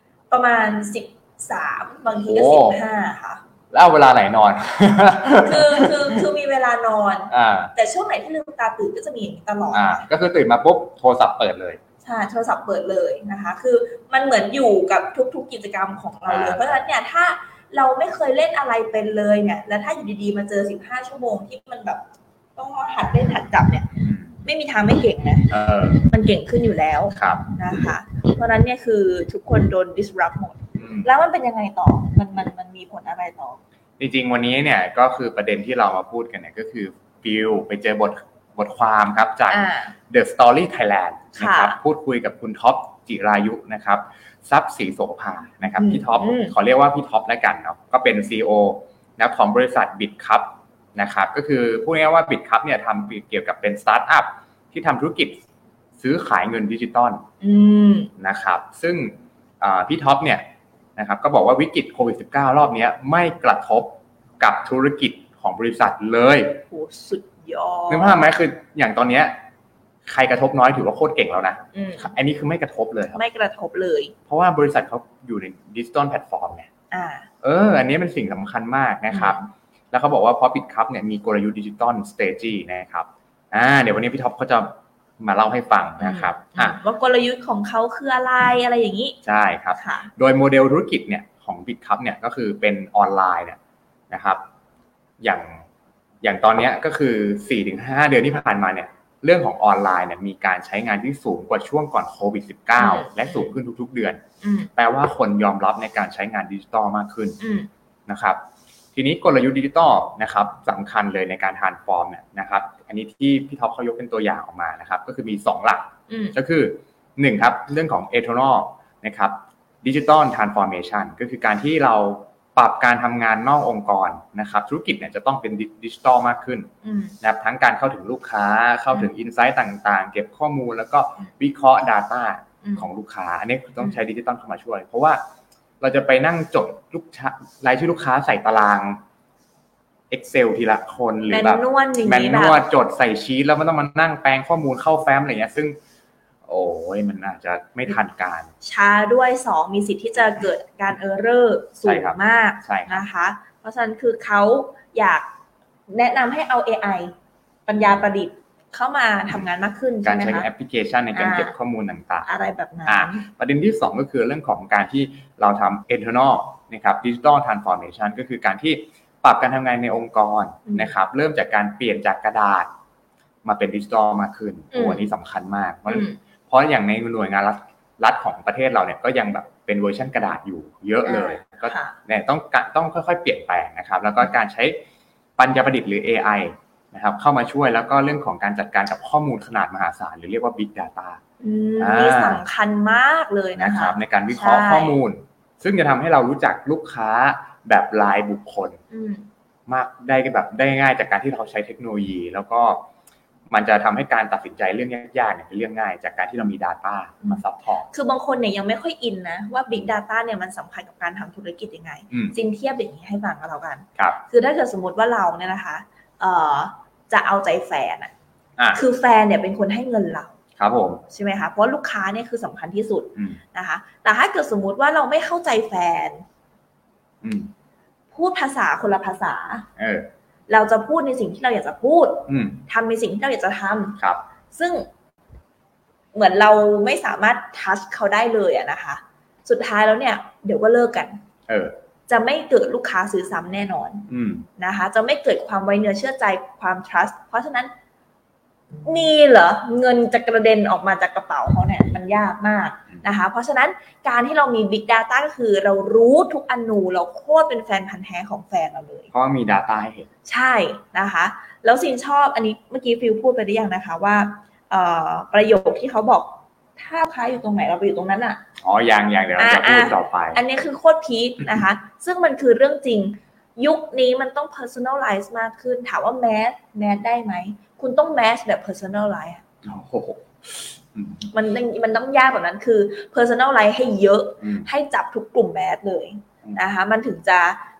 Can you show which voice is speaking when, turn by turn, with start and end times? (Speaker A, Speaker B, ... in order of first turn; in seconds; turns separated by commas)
Speaker A: 0.3-3.4, Speaker B: 2.2-2.8, Speaker B: 3.7-6.2, Speaker A: 5.2-10.1, Speaker B: 7.3-7.7, Speaker B: 9.7-11.8, Speaker A: 12.0-22.0, Speaker B: 16.2-16.8, Speaker A: 22.6-33.6, Speaker B: 24.0-24.4, Speaker B: 25.5-26.0, Speaker B: 27.1-27.5, Speaker B: 30.8-31.1, Speaker B: 34.0-55.4, Speaker A: 39.5-39.9, Speaker A: 41.4-41.8, Speaker A: 45.7-46.5, Speaker B: 56.0-57.2, Speaker A: 57.4-58.1, Speaker B: 58.2-66.6, Speaker A: 66.7-68.3, Speaker B: 67.9-69.4, Speaker B: 70.0-73.2, Speaker A: 71.7-72.1, Speaker A: 73.1-74.1, Speaker B: 74.3-76.7, Speaker A: 76.9-77.3, Speaker B: 77.4-79.4, Speaker A: 79.1-79.5, Speaker B: 79.9-86.8, Speaker A: 86.0-89.2, Speaker B: 89.2-93.6, Speaker A: 89.7-90.1, Speaker B: 94.1-94.4, Speaker B: 95.2-95.6, Speaker B: 96.2-104.2, Speaker A: 102.8-103.5, Speaker A: 104.4-104.7, Speaker B: 104.8-107.4, Speaker A: 107.4-107.7, Speaker B: 108.1-108.4, Speaker B: 108.9-126.7, Speaker A: 116.1-116.3, Speaker A: 126.8-127.2, Speaker B: 127.2-135.2, Speaker A: 132.6-132.9, Speaker B: 135.8-139.0, Speaker B: 140.1-145.7, Speaker A: 141.3-142.6, Speaker B: 146.4-148.5, Speaker A: 148.6-155.3, Speaker B: 151.8-153.1, Speaker A: 155.9-157.1, Speaker A: 157.7-160.5, Speaker B: 160.0-162.3, Speaker A: 161.1-161.5, Speaker A: 162.2-163.3, Speaker B: 162.8-172.7, Speaker A: 170.7-170.9, Speaker B: 173.4-184.8, Speaker A: 174.7-175.1, Speaker A: 175.9-176.2, Speaker A: 181.0-181.9, Speaker B: 185.4-191.2, Speaker A: 191.4-195.0, Speaker B: 191.8-192.4, Speaker B: 193.5-198.8, Speaker A: 198.9-199.3, Speaker B: 199.7-202.8, Speaker B: 203.5-207.9, Speaker A: 207.2-218.1, Speaker A: 218.7-220.4, Speaker B: 220.6-221.0, Speaker A: 221.1-226.2, Speaker B: 227.2-227.5, Speaker A: 228.1-229.7, Speaker B: 229.8-230.1, Speaker A: 230.5-234.0, Speaker B: 232.3-232.6, Speaker A: 234.5-234.9, Speaker A: 236.1-241.2, Speaker B: 241.5-241.7, Speaker A: 242.1-244.1, Speaker B: 244.1-244.5, Speaker A: 244.6-247.7, Speaker A: 248.8-259.1, Speaker B: 259.1-260.1, Speaker A: 260.3-268.4, Speaker B: 268.6-270.4, Speaker A: 269.4-279.4, Speaker B: 279.6-281.3, Speaker A: 281.3-287.6, Speaker B: 284.4-284.7